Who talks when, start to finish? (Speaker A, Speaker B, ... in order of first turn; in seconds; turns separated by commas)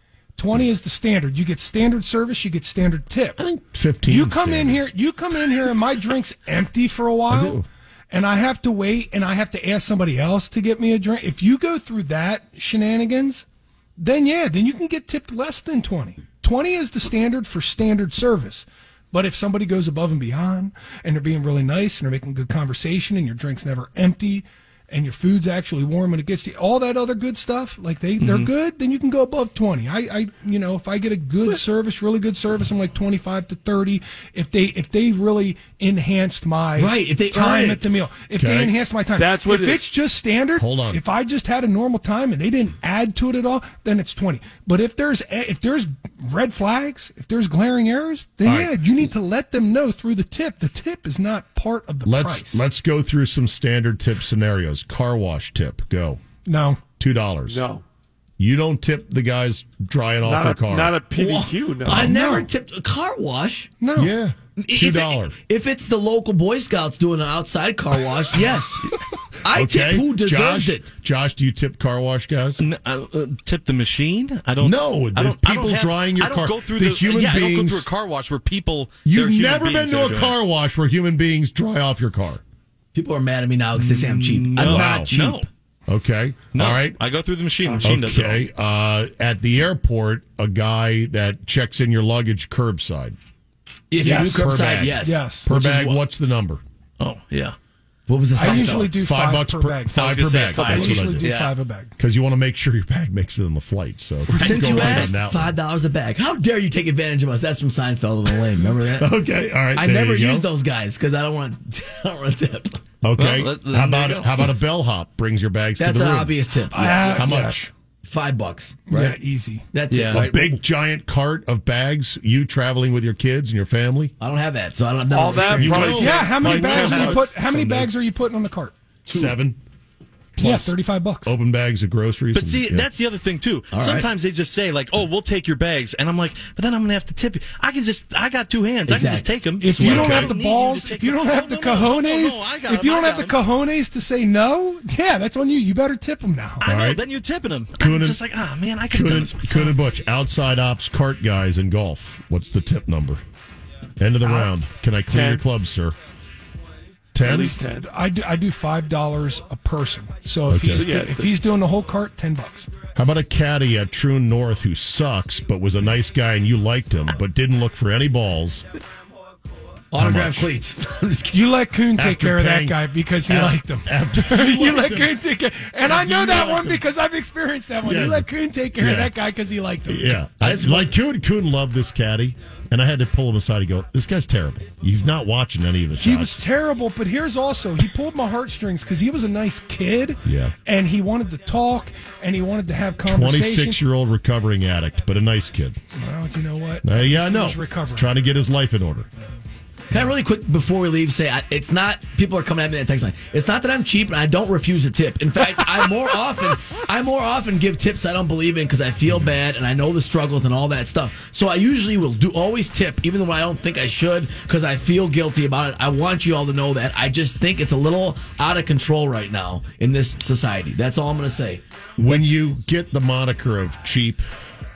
Speaker A: 0.3-3.4, Speaker B: 3.4-4.8, Speaker A: 4.1-13.4, Speaker B: 7.3-7.7, Speaker A: 14.0-52.6, Speaker C: 28.2-28.5, Speaker D: 36.8-37.8, Speaker B: 38.4-38.7, Speaker E: 39.1-39.9, Speaker B: 40.5-41.0, Speaker B: 48.4-48.8, Speaker B: 52.0-56.2, Speaker A: 56.4-56.8, Speaker B: 57.0-57.6, Speaker E: 57.5-57.8, Speaker B: 58.4-61.0, Speaker E: 60.2-62.1, Speaker D: 61.1-63.7, Speaker A: 61.9-62.5, Speaker B: 61.9-62.1, Speaker A: 63.8-64.1, Speaker B: 63.9-65.3, Speaker D: 64.6-70.9, Speaker B: 69.5-72.6, Speaker C: 72.6-80.3, Speaker B: 74.6-77.9, Speaker B: 79.0-82.4, Speaker D: 82.9-85.5, Speaker C: 83.7-85.5, Speaker B: 84.6-85.1, Speaker B: 85.9-87.0, Speaker C: 86.5-88.5, Speaker E: 87.6-88.0, Speaker B: 87.8-93.2, Speaker D: 93.9-96.0, Speaker B: 94.0-96.6, Speaker A: 94.0-94.5, Speaker A: 95.0-95.5, Speaker C: 97.0-97.6, Speaker D: 98.1-98.9, Speaker A: 98.3-101.9, Speaker B: 98.4-101.3, Speaker C: 99.9-101.5, Speaker B: 102.0-105.5, Speaker C: 104.3-105.2, Speaker D: 104.3-109.1, Speaker B: 108.8-110.5, Speaker D: 109.7-112.8, Speaker B: 113.0-116.3, Speaker C: 113.2-114.5, Speaker D: 115.8-117.5, Speaker A: 116.7-117.7, Speaker B: 117.0-117.7, Speaker D: 118.0-119.2, Speaker A: 118.9-119.7, Speaker D: 119.7-120.6, Speaker C: 119.9-120.2, Speaker B: 120.1-124.1, Speaker D: 124.2-126.1, Speaker E: 125.1-127.3, Speaker B: 125.5-127.9, Speaker A: 125.9-128.7, Speaker B: 129.1-129.6, Speaker B: 130.3-132.9, Speaker A: 130.4-131.3, Speaker C: 132.3-143.4, Speaker D: 133.7-134.1, Speaker D: 138.9-140.2, Speaker A: 139.6-146.7, Speaker B: 139.8-140.3, Speaker B: 146.6-147.0, Speaker C: 146.6-149.8, Speaker B: 147.8-148.2, Speaker B: 148.9-153.2, Speaker B: 154.0-155.9, Speaker A: 154.2-154.5, Speaker E: 155.1-155.4, Speaker B: 157.1-157.6, Speaker E: 157.2-157.9, Speaker A: 157.8-162.7, Speaker B: 160.5-160.9, Speaker E: 160.7-161.4, Speaker B: 162.9-168.6, Speaker D: 169.9-171.5, Speaker B: 170.0-170.5, Speaker A: 171.3-180.2, Speaker B: 172.0-175.2, Speaker B: 175.8-176.8, Speaker B: 177.8-179.1, Speaker B: 179.9-186.4, Speaker D: 180.4-180.9, Speaker A: 186.0-193.8, Speaker B: 190.2-190.5, Speaker B: 193.1-195.8, Speaker A: 195.9-198.2, Speaker B: 196.8-199.1, Speaker D: 199.9-222.3, Speaker B: 222.0-224.2